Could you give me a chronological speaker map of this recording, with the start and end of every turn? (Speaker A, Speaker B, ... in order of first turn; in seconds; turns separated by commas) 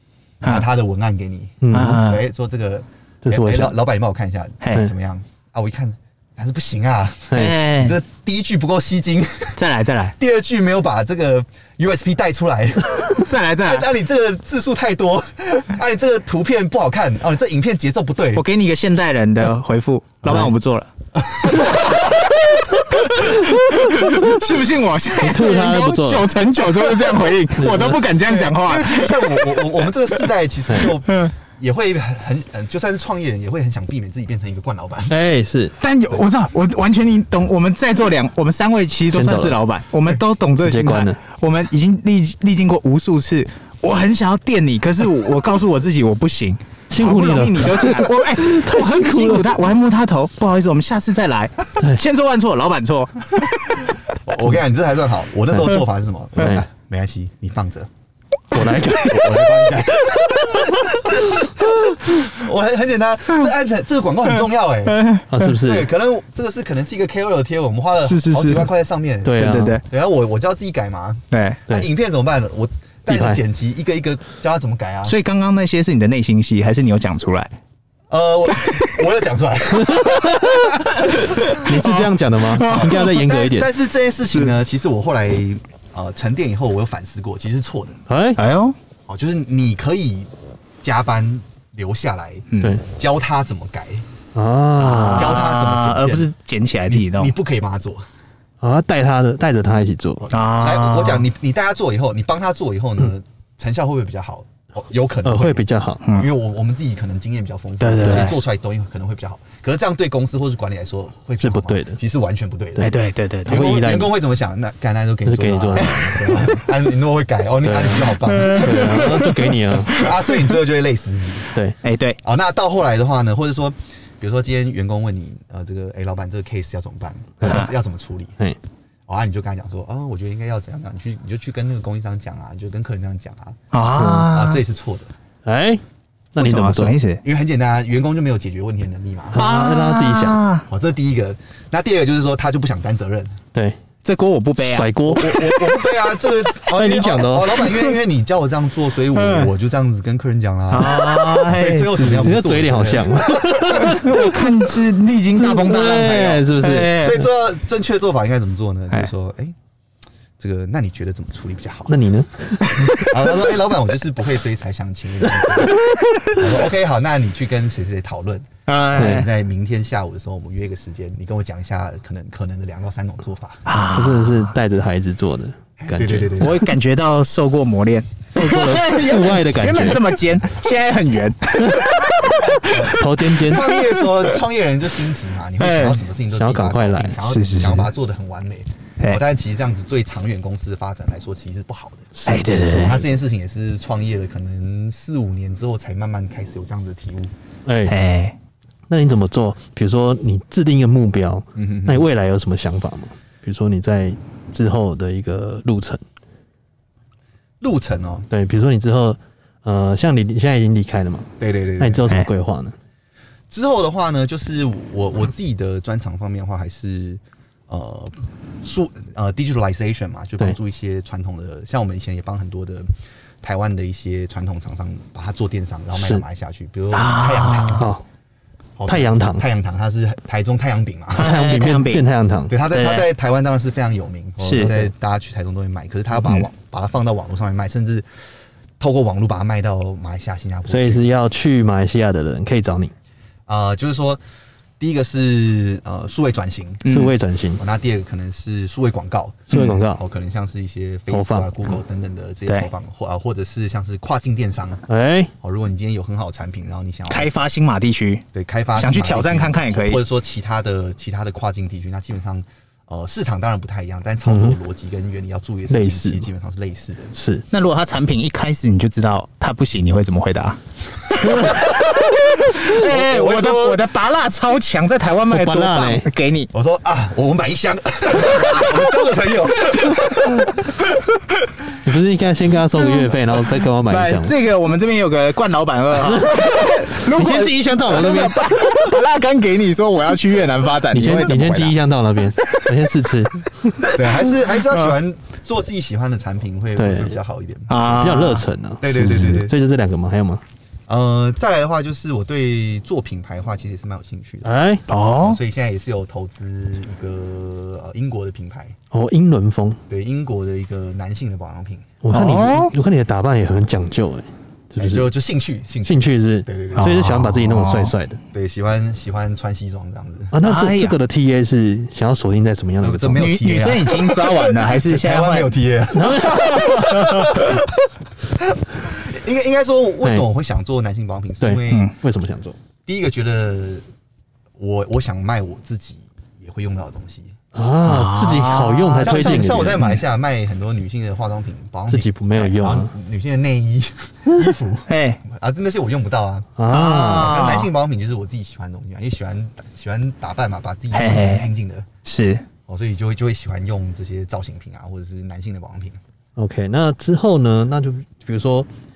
Speaker A: 0.4-9.6, Speaker B: 1.6-2.0, Speaker C: 1.7-2.2, Speaker B: 3.2-3.7, Speaker C: 4.6-4.9, Speaker B: 7.3-7.6, Speaker C: 7.3-8.0, Speaker C: 9.6-10.1, Speaker A: 10.2-18.4, Speaker C: 13.1-13.9, Speaker C: 18.3-20.9, Speaker B: 20.2-20.5, Speaker A: 21.2-22.1, Speaker C: 21.4-29.7, Speaker B: 23.3-24.4, Speaker B: 25.2-26.3, Speaker B: 27.6-28.0, Speaker A: 28.1-35.1, Speaker B: 35.1-35.8, Speaker C: 35.8-53.8, Speaker B: 39.1-39.6, Speaker B: 40.6-41.2, Speaker B: 46.9-49.5, Speaker A: 54.2-57.9, Speaker B: 56.4-56.7, Speaker B: 58.5-59.3, Speaker A: 58.9-75.2, Speaker C: 64.9-65.3, Speaker B: 65.3-65.9, Speaker C: 68.0-68.7, Speaker B: 69.2-69.8, Speaker C: 69.4-69.8, Speaker C: 71.3-71.6, Speaker B: 73.1-73.4, Speaker C: 75.0-77.5, Speaker A: 78.1-81.7, Speaker B: 79.9-80.7, Speaker C: 81.5-83.2, Speaker B: 81.5-83.7, Speaker A: 82.7-88.0, Speaker B: 88.1-88.4, Speaker C: 88.4-88.8, Speaker A: 89.1-94.1, Speaker C: 92.5-92.8, Speaker B: 94.3-95.4, Speaker C: 94.8-97.3, Speaker A: 95.1-96.3, Speaker A: 96.9-98.0, Speaker B: 98.6-100.3, Speaker A: 100.2-112.9, Speaker C: 100.3-101.3, Speaker B: 105.2-106.0, Speaker C: 106.0-106.3, Speaker C: 107.8-108.4, Speaker B: 111.4-112.0, Speaker C: 112.8-113.6, Speaker A: 113.4-121.5, Speaker B: 113.5-114.1, Speaker B: 115.2-116.7, Speaker B: 117.6-120.0, Speaker C: 118.3-119.2, Speaker C: 121.8-122.2, Speaker A: 122.2-128.4, Speaker C: 127.4-127.7, Speaker A: 129.1-133.6, Speaker C: 133.7-134.6, Speaker B: 133.9-134.3, Speaker A: 134.3-135.1, Speaker B: 135.4-135.8, Speaker B: 136.3-137.0, Speaker C: 136.4-137.2, Speaker A: 137.2-139.4, Speaker B: 139.3-140.4, Speaker C: 139.3-140.6, Speaker A: 140.7-143.4, Speaker B: 143.5-143.8, Speaker C: 144.0-145.3, Speaker B: 144.6-145.4, Speaker A: 145.1-154.4, Speaker B: 146.6-147.7, Speaker C: 149.1-149.5, Speaker C: 150.7-152.2, Speaker B: 151.9-154.4, Speaker C: 153.7-157.2, Speaker B: 155.4-157.1, Speaker A: 155.5-156.2, Speaker A: 156.9-159.6, Speaker A: 160.4-162.0, Speaker B: 161.9-163.2, Speaker A: 162.9-173.7, Speaker C: 168.7-169.3, Speaker B: 168.9-169.2, Speaker C: 173.7-174.5, Speaker B: 173.9-176.5, Speaker A: 175.8-176.6, Speaker C: 176.4-184.2, Speaker B: 178.3-180.0, Speaker A: 182.5-192.1, Speaker B: 182.9-183.6, Speaker C: 185.6-186.1, Speaker B: 186.3-187.2, Speaker C: 187.2-187.9, Speaker B: 192.1-193.0, Speaker C: 192.2-193.0, Speaker A: 192.6-197.3, Speaker B: 197.7-197.9, Speaker C: 197.9-198.3, Speaker B: 198.9-206.0, Speaker A: 201.6-202.1, Speaker A: 207.6-208.3, Speaker B: 208.3-212.7, Speaker A: 211.4-212.1, Speaker A: 213.5-222.9, Speaker A: 223.4-227.9, Speaker B: 225.9-226.2, Speaker C: 226.9-227.9, Speaker B: 227.7-228.0, Speaker A: 228.8-231.4, Speaker B: 228.9-229.4, Speaker C: 231.1-232.0, Speaker B: 231.1-232.6, Speaker A: 232.5-238.1, Speaker C: 232.7-233.1, Speaker C: 234.4-234.7, Speaker B: 234.5-234.9, Speaker A: 238.8-241.1, Speaker B: 240.7-242.9, Speaker A: 243.5-244.2, Speaker A: 244.8-246.8, Speaker C: 246.8-247.1, Speaker B: 246.8-247.6, Speaker A: 247.6-254.8, Speaker B: 249.5-250.0, Speaker C: 249.5-249.8, Speaker B: 251.1-251.5, Speaker B: 254.9-255.3, Speaker A: 255.4-257.3, Speaker C: 257.1-258.2, Speaker A: 258.3-267.1, Speaker C: 258.8-260.0, Speaker B: 264.2-264.6, Speaker B: 265.7-266.3, Speaker B: 267.1-267.4, Speaker C: 267.5-270.6, Speaker C: 271.2-276.5, Speaker B: 271.3-271.5, Speaker A: 272.5-273.8, Speaker B: 275.3-276.1, Speaker A: 276.5-280.8, Speaker B: 281.8-284.3, Speaker C: 283.9-291.8, Speaker B: 286.1-288.8, Speaker B: 290.9-293.8, Speaker C: 293.9-294.8, Speaker A: 293.9-297.9, Speaker B: 296.8-297.2, Speaker C: 297.7-298.4, Speaker B: 297.8-300.4, Speaker A: 298.8-299.5, Speaker A: 300.9-304.6, Speaker B: 304.4-304.8, Speaker C: 304.9-305.4, Speaker A: 305.2-308.7, Speaker B: 308.9-309.8, Speaker A: 309.9-311.9, Speaker B: 312.0-315.1, Speaker C: 312.1-312.7, Speaker A: 314.8-317.1, Speaker B: 315.9-318.2, Speaker C: 316.8-317.9, Speaker A: 318.3-320.3, Speaker B: 320.3-323.3, Speaker C: 320.4-321.0, Speaker A: 322.8-331.9, Speaker C: 323.2-325.5, Speaker B: 325.9-326.9, Speaker B: 331.4-332.6, Speaker C: 331.7-331.9, Speaker A: 332.9-333.9, Speaker A: 334.6-337.3, Speaker B: 337.5-339.8, Speaker C: 337.8-340.0, Speaker A: 339.0-351.9, Speaker B: 341.9-342.9, Speaker C: 344.9-345.2, Speaker B: 346.6-347.4, Speaker C: 346.7-347.7, Speaker C: 350.9-351.5, Speaker C: 352.0-352.4, Speaker A: 352.7-356.0, Speaker B: 356.4-358.7